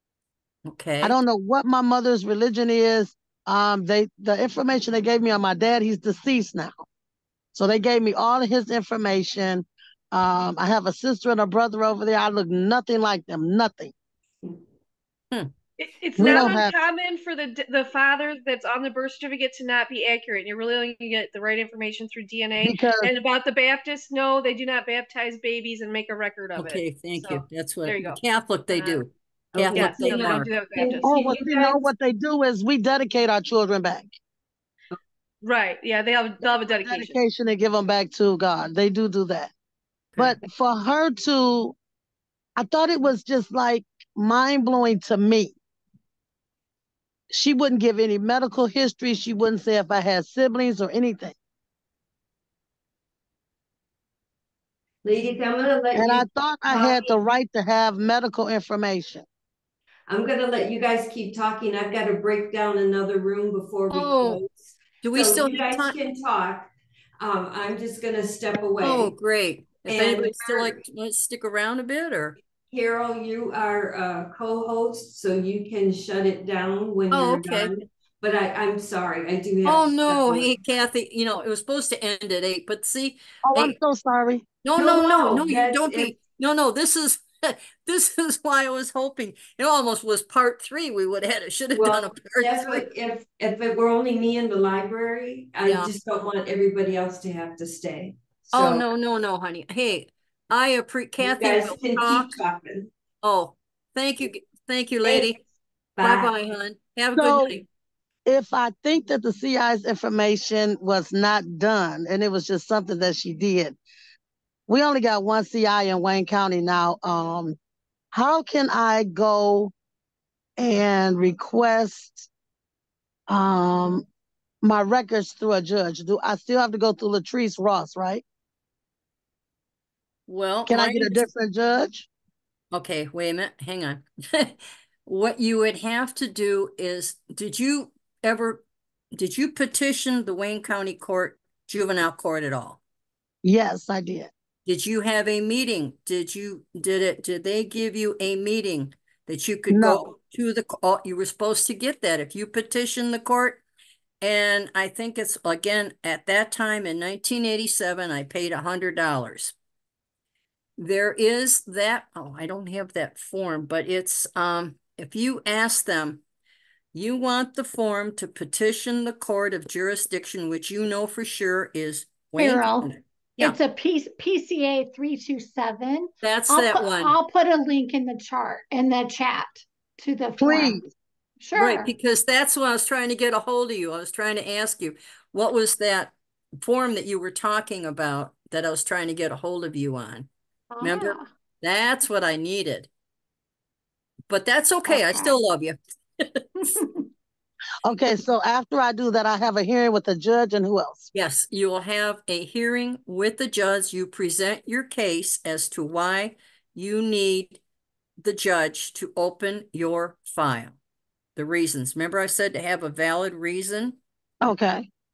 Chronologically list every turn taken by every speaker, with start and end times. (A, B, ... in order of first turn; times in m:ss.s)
0:00.6-0:01.2 A
0:01.0-0:06.8 B
0:07.5-0:13.9 B
0:15.8-0:28.2 C
0:16.2-0:16.8 B
0:22.6-0:23.1 B
0:26.6-0:30.5 A
0:28.7-0:29.0 C
0:29.5-0:31.3 D
0:29.7-0:31.9 C
0:31.0-0:34.1 B
0:35.4-0:37.2 C
0:36.8-0:39.5 B
0:40.2-0:41.8 B
0:42.6-0:45.6 B
0:47.3-0:51.4 B
0:55.0-0:57.2 D
0:55.9-0:59.3 B
1:00.1-1:09.2 D
1:03.9-1:04.4 A
1:05.0-1:06.0 A
1:08.8-1:12.4 A
1:09.8-1:10.8 D
1:12.7-1:20.5 D
1:17.1-1:17.7 A
1:19.6-1:23.8 A
1:23.4-1:24.4 B
1:24.6-1:32.8 A
1:24.8-1:26.1 D
1:31.7-1:38.8 D
1:35.6-1:35.9 A
1:38.5-1:42.4 A
1:41.2-1:42.9 D
1:43.2-1:45.4 A
1:45.0-1:45.3 D
1:46.0-1:46.3 D
1:46.0-1:47.6 A
1:47.1-1:47.6 B
1:48.3-1:53.8 B
1:54.7-1:57.6 B
1:58.1-1:59.7 B
2:00.6-2:02.3 B
2:03.3-2:04.0 B
2:04.6-2:08.2 B
2:10.3-2:11.3 A
2:10.7-2:12.1 B
2:12.7-2:18.6 A
2:19.1-2:22.8 A
2:23.4-2:24.3 B
2:24.6-2:33.6 A
2:29.7-2:30.1 B
2:34.2-2:39.6 A
2:40.8-2:46.2 A
2:46.9-2:53.6 A
2:52.3-3:00.8 E
2:56.2-2:57.1 A
3:00.4-3:00.8 B
3:01.4-3:01.9 E
3:01.6-3:10.3 A
3:10.7-3:11.3 E
3:10.8-3:12.9 A
3:14.3-3:16.8 A
3:14.9-3:15.3 E
3:16.6-3:17.0 E
3:17.8-3:21.1 B
3:21.1-3:27.6 A
3:28.2-3:30.8 A
3:31.4-3:34.0 A
3:34.4-3:34.9 B